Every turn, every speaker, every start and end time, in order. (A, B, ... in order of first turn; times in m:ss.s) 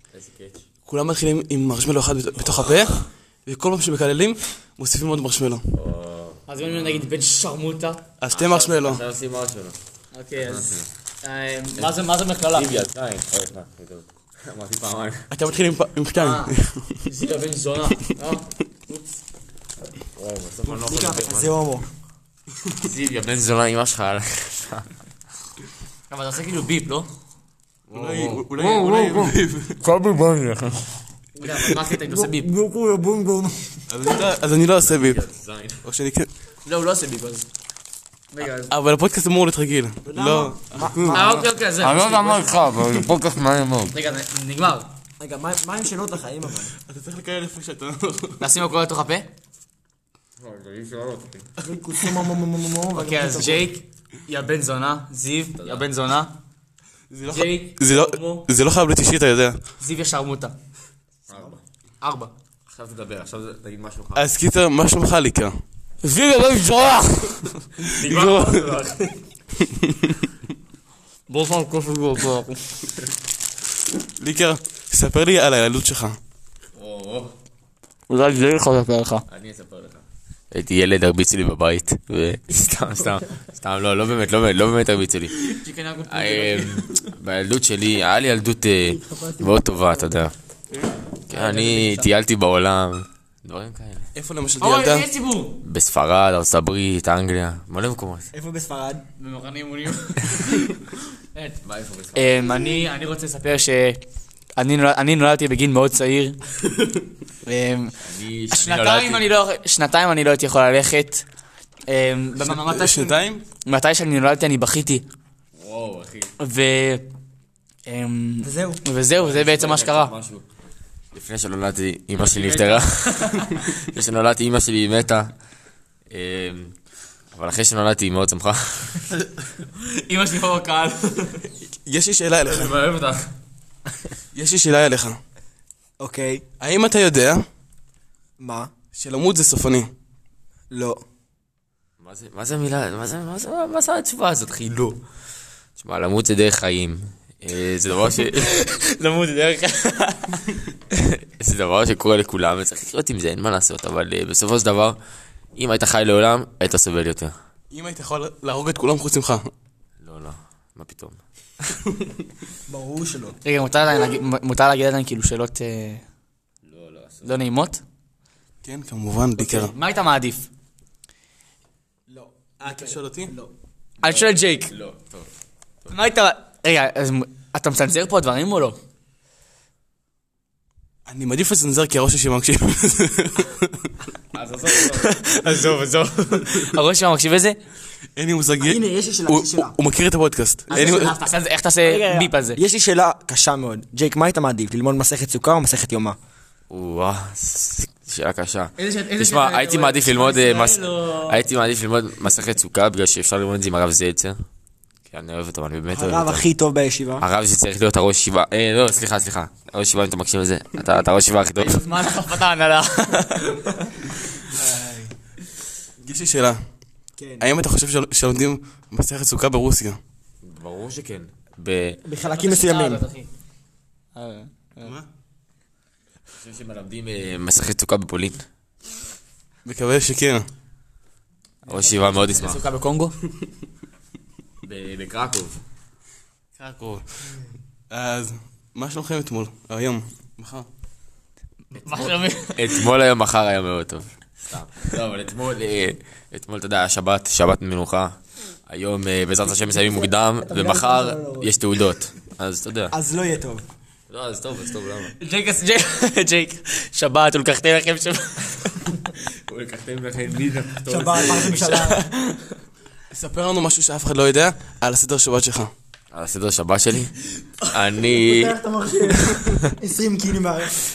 0:00.1-0:00.6 A
0:00.9-0:05.7 B
0:05.7-0:07.0 A
0:06.5-0:08.0 C
0:08.2-0:09.0 B
0:08.3-0:09.8 A
0:10.1-0:12.7 C
0:10.4-0:10.9 A
0:12.5-0:15.3 A
0:15.3-0:17.0 B
0:16.2-0:19.2 C
0:20.2-0:21.6 A
0:20.7-0:21.9 D
0:22.8-0:25.0 A
0:26.1-0:27.1 C
0:27.9-0:30.9 A
0:27.9-0:29.8 B
0:31.4-0:32.5 C
0:32.0-0:33.8 D
0:33.9-0:35.2 B
0:34.7-0:35.8 A
0:35.8-0:36.3 B
0:36.6-0:37.5 C
0:38.3-0:38.7 C
0:38.7-0:40.9 B
0:40.0-0:41.3 D
0:40.8-0:43.9 A
0:41.0-0:42.5 C
0:43.9-0:44.9 C
0:45.2-0:46.7 D
0:46.8-0:48.4 B
0:48.4-0:49.3 C
0:50.4-0:51.4 A
0:51.6-0:53.7 D
0:52.9-0:56.3 C
0:55.6-0:55.9 A
0:57.1-0:59.6 B
0:57.3-0:58.5 C
0:59.8-1:00.5 C
1:01.3-1:01.6 A
1:02.0-1:02.3 C
1:02.7-1:04.3 A
1:04.2-1:05.6 B
1:06.0-1:07.5 C
1:07.8-1:08.5 B
1:07.9-1:09.1 A
1:11.3-1:12.8 C
1:14.2-1:16.2 B
1:16.8-1:17.3 A
1:18.1-1:19.2 C
1:19.3-1:25.4 A
1:25.4-1:27.0 C
1:26.1-1:30.3 A
1:28.9-1:29.6 D
1:31.3-1:34.1 A
1:31.3-1:32.1 C
1:34.1-1:35.1 B
1:34.6-1:35.6 C
1:35.6-1:38.3 A
1:38.3-1:39.0 D
1:39.2-1:41.6 C
1:41.6-1:42.5 A
1:42.1-1:44.0 C
1:44.5-1:46.4 C
1:47.4-1:48.0 C
1:48.0-1:49.3 A
1:48.5-1:51.2 C
1:51.9-1:55.0 C
1:52.4-1:53.4 B
1:55.6-1:56.3 A
1:56.4-1:57.1 C
1:57.8-2:00.1 C
1:58.4-1:58.8 D
1:59.2-2:00.4 A
2:01.1-2:05.3 A
2:02.2-2:03.7 C
2:06.1-2:06.7 A
2:07.3-2:09.1 A
2:09.6-2:11.5 C
2:11.6-2:12.8 B
2:12.4-2:13.3 A
2:14.3-2:15.2 B
2:16.0-2:16.4 D
2:16.6-2:17.4 B
2:18.4-2:18.7 D
2:18.9-2:19.9 B
2:20.7-2:21.0 D
2:22.0-2:25.0 A
2:25.8-2:28.5 A
2:28.4-2:30.4 C
2:30.9-2:35.0 A
2:35.6-2:37.3 A
2:37.7-2:39.5 B
2:40.0-2:41.2 A
2:42.7-2:43.4 D
2:43.4-2:46.0 C
2:46.6-2:47.4 A
2:47.2-2:47.8 C
2:48.6-2:49.7 B
2:49.4-2:50.5 C
2:52.1-2:53.5 D
2:52.6-2:53.3 B
2:54.0-2:54.7 C
2:54.0-2:55.3 A
2:55.9-2:58.8 C
3:01.1-3:03.9 B
3:04.3-3:05.8 A
3:04.8-3:07.6 C
3:08.2-3:11.2 B
3:08.6-3:09.8 D
3:10.7-3:12.6 C
3:11.8-3:16.2 D
3:16.7-3:24.4 A
3:18.8-3:21.4 C
3:25.1-3:26.5 A
3:25.9-3:27.2 D
3:27.2-3:31.8 A
3:31.6-3:33.9 C
3:34.5-3:35.1 D
3:36.0-3:36.6 B
3:37.2-3:37.5 D
3:37.4-3:40.0 B
3:40.4-3:42.0 A
3:42.0-3:43.0 D
3:42.3-3:43.3 C
3:44.1-3:44.9 C
3:46.3-3:48.4 A
3:49.6-3:50.5 B
3:51.6-3:53.2 C
3:51.7-3:52.6 A
3:54.6-3:55.6 A
3:56.6-3:57.3 B
3:57.9-4:00.7 B
4:01.7-4:02.8 C
4:02.6-4:08.2 A
4:08.7-4:12.9 A
4:10.4-4:11.5 D
4:12.9-4:13.6 D
4:14.1-4:15.1 A
4:15.1-4:19.0 C
4:19.5-4:22.0 A
4:20.9-4:22.0 D
4:21.9-4:22.4 C
4:23.1-4:25.7 B
4:26.1-4:27.2 A
4:27.7-4:28.6 A
4:28.2-4:30.8 D